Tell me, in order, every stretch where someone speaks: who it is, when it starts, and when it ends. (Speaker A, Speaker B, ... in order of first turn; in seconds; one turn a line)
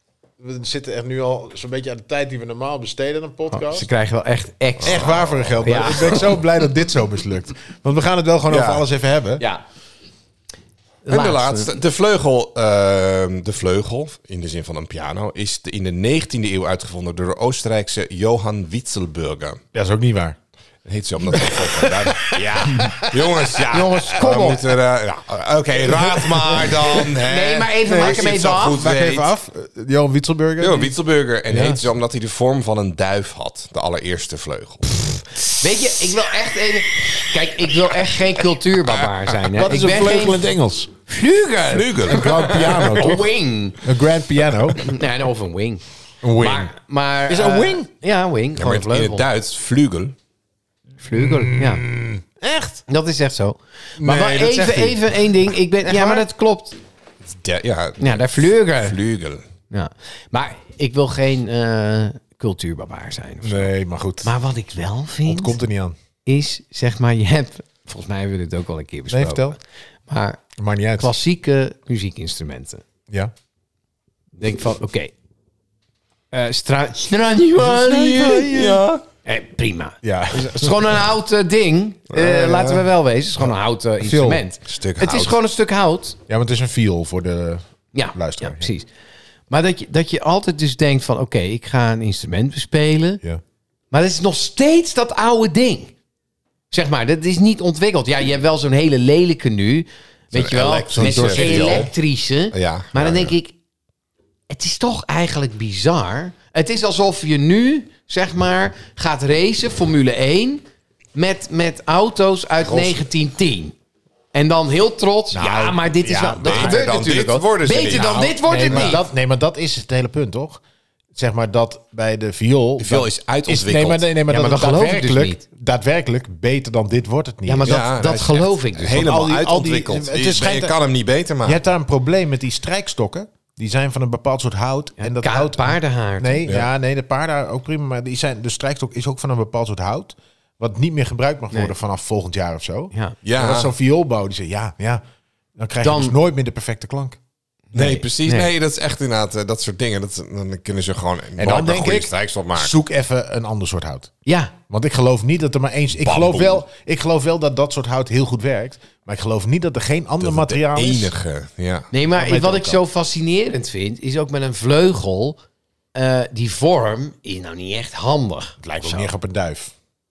Speaker A: 0.4-3.9
Speaker B: 3.5-6.4
Speaker A: 4.8-9.4
Speaker C: 4.8-6.2
Speaker C: 8.5-8.9
Speaker B: 11.1-11.7
Speaker C: 11.1-19.6
Speaker A: 19.7-20.4
Speaker C: 20.9-29.3
Speaker A: 21.3-24.6
Speaker B: 22.7-23.0
Speaker B: 23.7-24.7
Speaker A: 25.8-27.1
Speaker B: 27.0-28.8
Speaker A: 27.9-30.9
Speaker C: 30.6-35.5
Speaker A: 31.5-31.9
Speaker B: 35.6-40.5
Speaker A: 39.5-40.9
Speaker B: 41.1-43.9
Speaker C: 41.6-43.0
Speaker A: 42.1-43.3
Speaker A: 43.8-44.9
Speaker B: 44.7-49.2
Speaker A: 46.2-46.7
Speaker A: 47.3-47.9
Speaker C: 48.6-50.1
Speaker B: 51.0-51.9
Speaker A: 51.1-52.8
Speaker B: 52.9-56.8
Speaker A: 54.0-56.3
Speaker C: 57.3-59.4
Speaker B: 58.0-59.0
Speaker B: 59.7-63.7
Speaker A: 63.4-64.3
Speaker B: 64.2-65.6
Speaker A: 65.3-66.0
Speaker B: 66.3-69.6
Speaker A: 69.1-69.6
Speaker B: 70.1-70.4
Speaker A: 70.6-71.1
Speaker B: 71.0-72.8
Speaker B: 74.4-75.1
Speaker B: 76.3-86.2
Speaker A: 77.7-78.8
Speaker C: 77.7-79.0
Speaker A: 80.0-80.9
Speaker A: 82.2-82.9
Speaker A: 83.4-84.4
Speaker C: 84.7-85.4
Speaker A: 86.3-88.7
Speaker B: 87.9-88.9
Speaker B: 89.5-93.2
Speaker B: 93.9-95.9
Speaker B: 96.7-103.5
Speaker C: 100.3-101.9
Speaker A: 100.9-101.9
Speaker C: 102.5-103.3
Speaker B: 104.5-110.6
Speaker B: 111.2-113.8
Speaker B: 114.3-119.0
Speaker A: 115.3-116.8
Speaker C: 116.3-119.0
Speaker A: 118.0-120.6
Speaker A: 121.2-127.8
Speaker C: 122.8-124.0
Speaker B: 124.3-125.4
Speaker B: 127.5-129.1
Speaker C: 127.6-131.6
Speaker A: 128.9-130.8
Speaker A: 131.4-145.0
Speaker B: 135.0-136.4
Speaker C: 143.2-143.7
Speaker A: 145.6-147.2
Speaker B: 145.8-146.2
Speaker B: 147.7-148.5
Speaker C: 147.7-152.8
Speaker A: 151.4-154.1
Speaker B: 154.3-154.5
Speaker A: 154.7-161.1
Speaker C: 156.0-156.6
Speaker C: 160.2-161.9
Speaker B: 161.9-165.4
Speaker A: 162.1-162.8
Speaker B: 165.9-169.1
Speaker A: 168.6-169.7